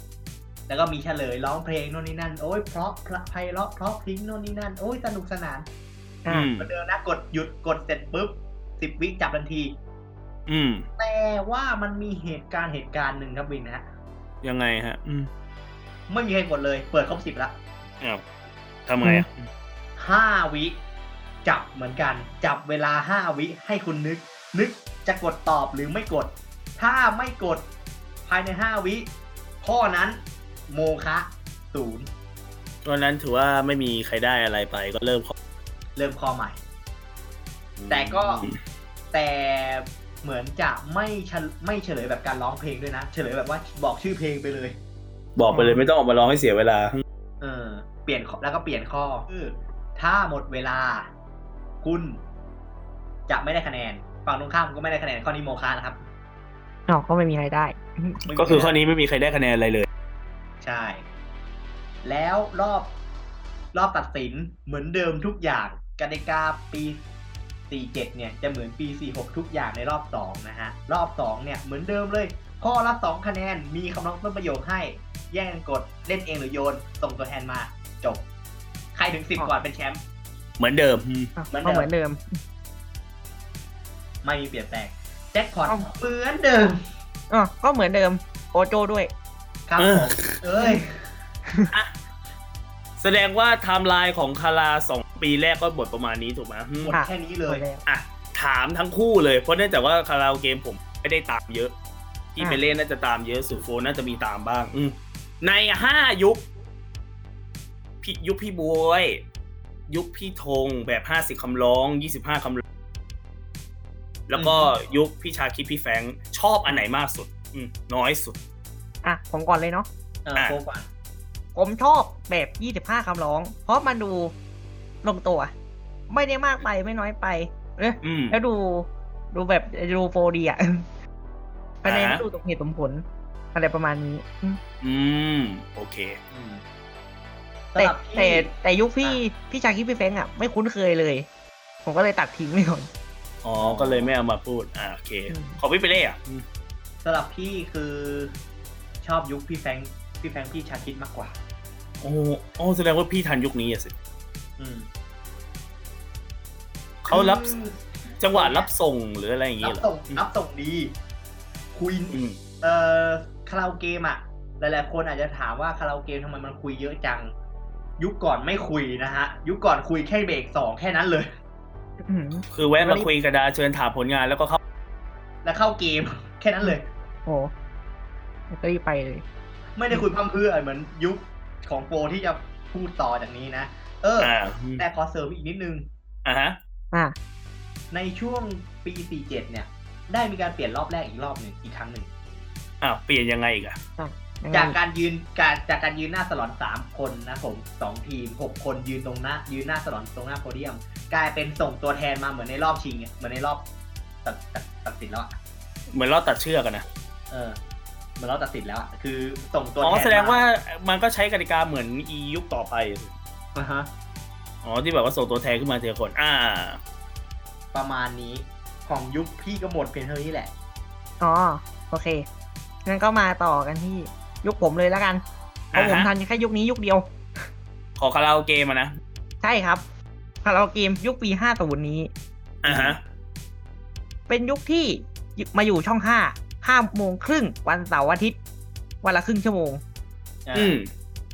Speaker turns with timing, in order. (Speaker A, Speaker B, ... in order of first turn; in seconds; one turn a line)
Speaker A: 0.7-5.7
Speaker B: 6.3-6.7
Speaker A: 6.6-9.8
Speaker B: 10.5-10.9
Speaker A: 11.0-13.9
Speaker B: 14.4-15.3
Speaker A: 16.1-17.6
Speaker B: 18.9-19.5
Speaker A: 20.0-20.8
Speaker A: 21.4-27.7
Speaker A: 28.3-29.1
Speaker A: 29.6-32.1
Speaker B: 32.9-35.3
Speaker A: 36.0-36.6
Speaker B: 37.8-38.6
Speaker A: 37.9-38.5
Speaker A: 39.1-44.8
Speaker B: 45.4-47.0
Speaker C: 45.5-45.8
Speaker A: 47.4-51.1
Speaker A: 51.8-52.2
Speaker A: 53.3-56.0
Speaker C: 56.9-58.2
Speaker A: 58.3-58.8
Speaker B: 58.3-59.9
Speaker A: 60.6-61.0
Speaker A: 62.0-62.9
Speaker A: 63.7-67.0
Speaker A: 67.7-78.2
Speaker A: 79.0-80.0
Speaker B: 80.6-81.3
Speaker C: 81.4-82.2
Speaker A: 81.5-81.9
Speaker A: 84.2-86.8
Speaker C: 87.3-89.1
Speaker A: 89.7-91.1
Speaker B: 89.8-90.3
Speaker B: 93.0-96.9
Speaker A: 96.8-97.6
Speaker C: 96.9-97.8
Speaker B: 97.9-101.7
Speaker B: 102.3-106.5
Speaker B: 108.0-109.2
Speaker B: 109.9-112.6
Speaker B: 114.3-118.4
Speaker A: 114.3-114.7
Speaker C: 119.0-119.9
Speaker A: 120.2-120.9
Speaker C: 121.5-124.3
Speaker C: 125.0-125.5
Speaker C: 126.1-130.8
Speaker B: 128.0-128.4
Speaker C: 131.8-134.6
Speaker B: 131.8-132.2
Speaker B: 134.8-136.2
Speaker A: 136.3-136.6
Speaker A: 137.7-138.5
Speaker C: 137.8-141.3
Speaker C: 141.8-142.9
Speaker B: 143.4-146.4
Speaker A: 143.6-144.1
Speaker C: 145.3-145.6
Speaker A: 147.0-148.4
Speaker A: 149.0-151.4
Speaker B: 152.0-153.9
Speaker A: 154.6-154.9
Speaker B: 157.0-157.5
Speaker A: 157.1-158.7
Speaker B: 158.2-160.2
Speaker A: 159.6-161.0
Speaker A: 161.7-167.3
Speaker B: 162.1-162.4
Speaker A: 168.0-171.3
Speaker C: 172.1-173.1
Speaker B: 172.5-174.6
Speaker A: 175.4-176.9
Speaker C: 177.3-177.5
Speaker C: 178.5-179.2
Speaker A: 179.8-185.9
Speaker B: 184.2-184.8
Speaker B: 186.2-186.6
Speaker A: 187.9-192.1
Speaker B: 192.8-193.8
Speaker C: 194.0-194.8
Speaker A: 194.5-203.7
Speaker A: 204.2-205.4
Speaker B: 205.9-206.8
Speaker A: 207.3-207.6
Speaker A: 208.2-210.4
Speaker B: 209.8-213.1
Speaker A: 213.6-213.9
Speaker B: 214.6-216.8
Speaker A: 217.7-220.5
Speaker C: 221.2-222.2
Speaker C: 222.9-225.2
Speaker B: 225.7-226.1
Speaker C: 225.7-227.1
Speaker B: 228.0-229.0
Speaker C: 229.4-229.8
Speaker C: 230.4-232.1
Speaker B: 232.6-233.0
Speaker A: 232.7-233.0
Speaker C: 234.3-238.4
Speaker C: 239.0-239.8
Speaker A: 240.5-240.8
Speaker B: 240.6-240.9